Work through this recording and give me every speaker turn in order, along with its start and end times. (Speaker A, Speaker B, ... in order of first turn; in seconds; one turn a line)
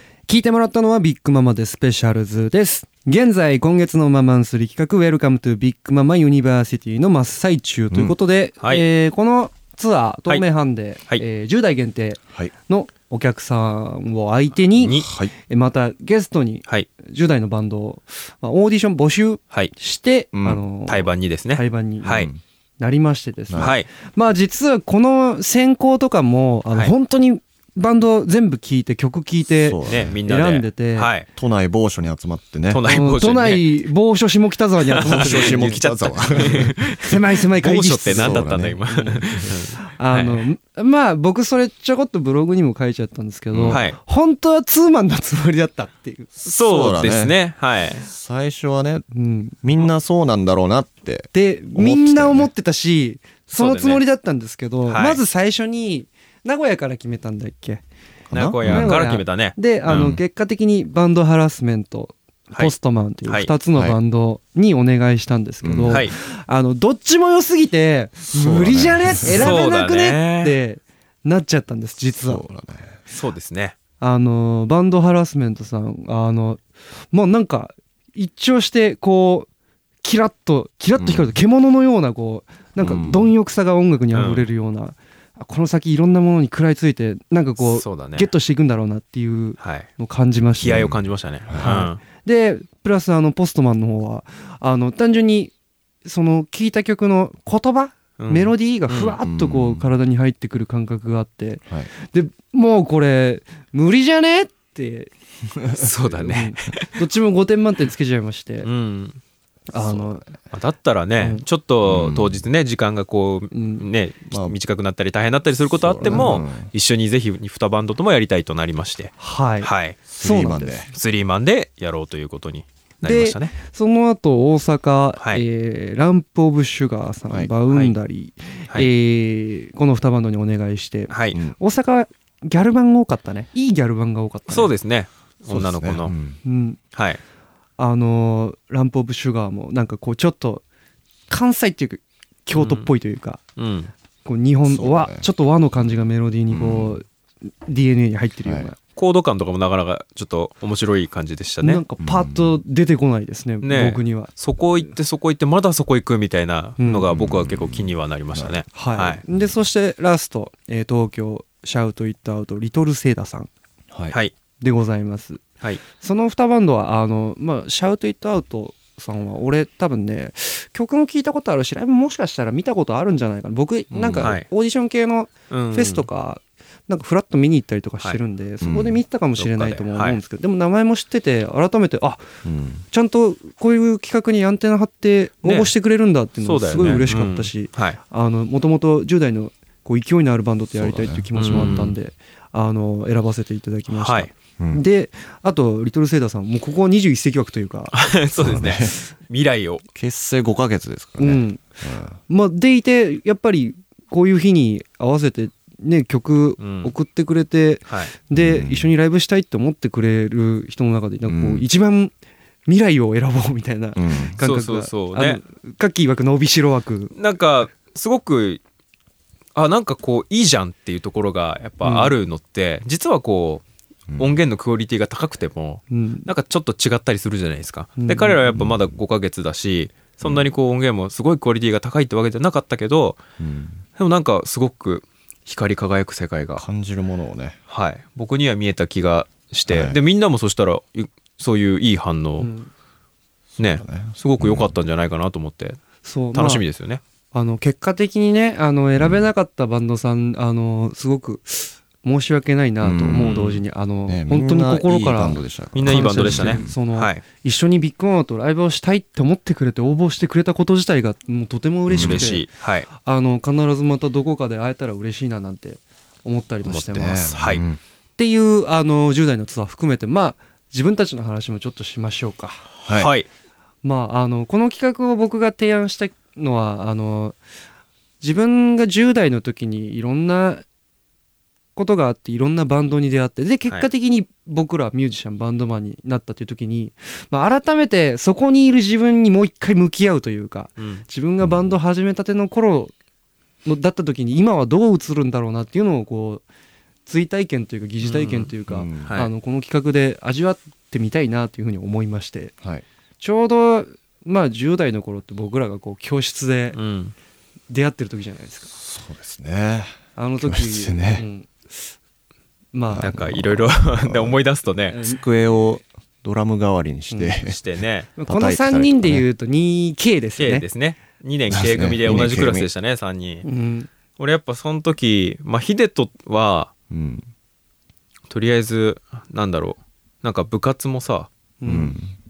Speaker A: 0.3-22.2
Speaker B: 7.9-8.2
Speaker C: 8.6-8.9
Speaker B: 12.3-12.5
Speaker C: 14.8-15.1
Speaker B: 14.9-15.3
Speaker B: 20.3-20.8
Speaker C: 20.9-22.3
Speaker B: 22.1-22.4
Speaker A: 22.8-31.2
Speaker C: 23.6-23.9
Speaker B: 29.6-30.2
Speaker C: 29.9-31.3
Speaker B: 31.3-32.9
Speaker C: 32.7-33.8
Speaker A: 32.8-35.8
Speaker C: 34.8-40.4
Speaker B: 35.0-36.7
Speaker A: 36.4-39.2
Speaker B: 38.0-38.8
Speaker A: 39.8-46.3
Speaker B: 43.5-43.8
Speaker C: 43.7-44.0
Speaker C: 46.4-48.0
Speaker B: 46.6-47.4
Speaker B: 48.0-49.1
Speaker A: 49.1-49.6
Speaker B: 49.6-52.5
Speaker A: 51.3-57.8
Speaker C: 53.5-54.0
Speaker C: 54.9-55.2
Speaker B: 58.3-59.1
Speaker C: 58.3-60.2
Speaker A: 58.6-72.5
Speaker B: 59.9-60.2
Speaker C: 62.5-63.6
Speaker B: 63.7-64.0
Speaker B: 65.6-66.1
Speaker C: 65.9-66.1
Speaker B: 68.3-69.6
Speaker C: 69.3-70.6
Speaker B: 72.3-73.0
Speaker C: 73.1-73.8
Speaker A: 74.0-79.5
Speaker A: 80.0-90.8
Speaker B: 81.0-81.3
Speaker B: 82.8-83.3
Speaker C: 84.1-84.5
Speaker C: 87.6-88.3
Speaker C: 89.6-89.9
Speaker C: 90.6-92.1
Speaker B: 90.6-91.9
Speaker A: 91.6-95.5
Speaker A: 96.0-105.1
Speaker C: 98.2-99.2
Speaker B: 99.2-99.8
Speaker C: 105.8-107.0
Speaker A: 106.1-108.7
Speaker C: 108.6-109.2
Speaker A: 109.7-110.4
Speaker C: 109.8-120.1
Speaker A: 111.2-111.4
Speaker B: 111.8-112.4
Speaker A: 113.5-113.9
Speaker B: 114.3-114.6
Speaker B: 115.7-116.7
Speaker A: 116.0-116.4
Speaker A: 119.2-120.8
Speaker B: 120.1-120.9
Speaker C: 120.9-123.6
Speaker A: 123.0-134.8
Speaker C: 127.7-128.0
Speaker C: 131.1-131.4
Speaker B: 131.3-131.6
Speaker C: 134.5-136.2
Speaker B: 135.5-136.4
Speaker A: 136.4-136.8
Speaker C: 136.9-137.2
Speaker A: 137.8-140.6
Speaker A: 141.3-143.5
Speaker C: 142.5-142.9
Speaker C: 143.6-143.9
Speaker A: 144.2-147.0
Speaker B: 144.6-145.3
Speaker B: 146.5-147.0
Speaker A: 147.7-148.8
Speaker C: 148.9-151.8
Speaker A: 151.6-154.3
Speaker B: 152.0-152.6
Speaker C: 153.6-159.2
Speaker A: 156.8-157.1
Speaker B: 157.1-158.7
Speaker A: 158.7-163.5
Speaker A: 164.6-182.2
Speaker B: 173.9-174.4
Speaker C: 174.2-174.5
Speaker C: 175.5-176.1
Speaker B: 178.6-179.0
Speaker C: 179.4-180.2
Speaker B: 182.4-182.8
Speaker A: 182.9-197.9
Speaker C: 185.4-185.7
Speaker C: 186.4-188.0
Speaker B: 190.7-191.9
Speaker C: 191.3-192.0
Speaker C: 193.9-194.4
Speaker B: 194.5-194.8
Speaker C: 197.9-199.8
Speaker B: 198.3-198.9
Speaker B: 199.9-202.2
Speaker A: 201.2-212.1
Speaker C: 206.6-206.9
Speaker C: 207.9-208.2
Speaker B: 208.3-208.9
Speaker B: 211.3-211.6
Speaker A: 212.7-217.1
Speaker B: 214.0-214.3
Speaker C: 214.4-215.4
Speaker C: 217.1-218.6
Speaker C: 219.6-223.6
Speaker A: 221.8-222.2
Speaker B: 224.1-224.4
Speaker C: 224.2-233.2
Speaker A: 225.9-226.3
Speaker A: 228.0-228.4
Speaker B: 228.5-228.9
Speaker B: 230.2-230.5
Speaker B: 233.4-233.8
Speaker C: 234.0-236.7
Speaker B: 236.6-237.6
Speaker C: 237.7-242.5
Speaker B: 239.7-240.0
Speaker A: 242.4-242.7
Speaker B: 243.6-244.8
Speaker C: 243.6-245.8
Speaker A: 246.0-246.6
Speaker C: 246.3-247.0
Speaker A: 247.3-267.3
Speaker B: 249.0-249.3
Speaker B: 252.8-253.3
Speaker C: 253.1-253.6
Speaker B: 254.1-256.8
Speaker C: 255.7-257.2
Speaker B: 261.9-262.4
Speaker C: 261.9-262.9
Speaker C: 266.6-267.6
Speaker B: 266.8-267.8
Speaker A: 268.2-272.6
Speaker B: 272.8-273.1
Speaker C: 272.9-273.3
Speaker A: 273.8-277.4
Speaker A: 278.2-280.6
Speaker A: 281.8-292.9
Speaker C: 290.8-291.1
Speaker A: 293.6-296.4
Speaker A: 297.1-302.6
Speaker C: 298.0-299.3
Speaker B: 298.7-299.1
Speaker A: 303.2-306.8
Speaker C: 306.7-307.1
Speaker A: 307.7-308.7
Speaker B: 308.7-311.2
Speaker A: 310.2-311.9
Speaker A: 312.7-313.3
Speaker B: 312.9-314.4
Speaker C: 313.0-315.0
Speaker A: 314.9-315.7
Speaker B: 315.1-317.6
Speaker A: 317.1-317.4
Speaker C: 317.5-318.1
Speaker A: 318.2-320.7
Speaker B: 318.2-319.3
Speaker C: 320.4-323.4
Speaker B: 321.5-322.7
Speaker A: 323.4-323.9
Speaker C: 324.2-326.7
Speaker B: 326.9-327.3
Speaker C: 328.3-331.3
Speaker A: 331.6-332.0
Speaker B: 331.7-332.1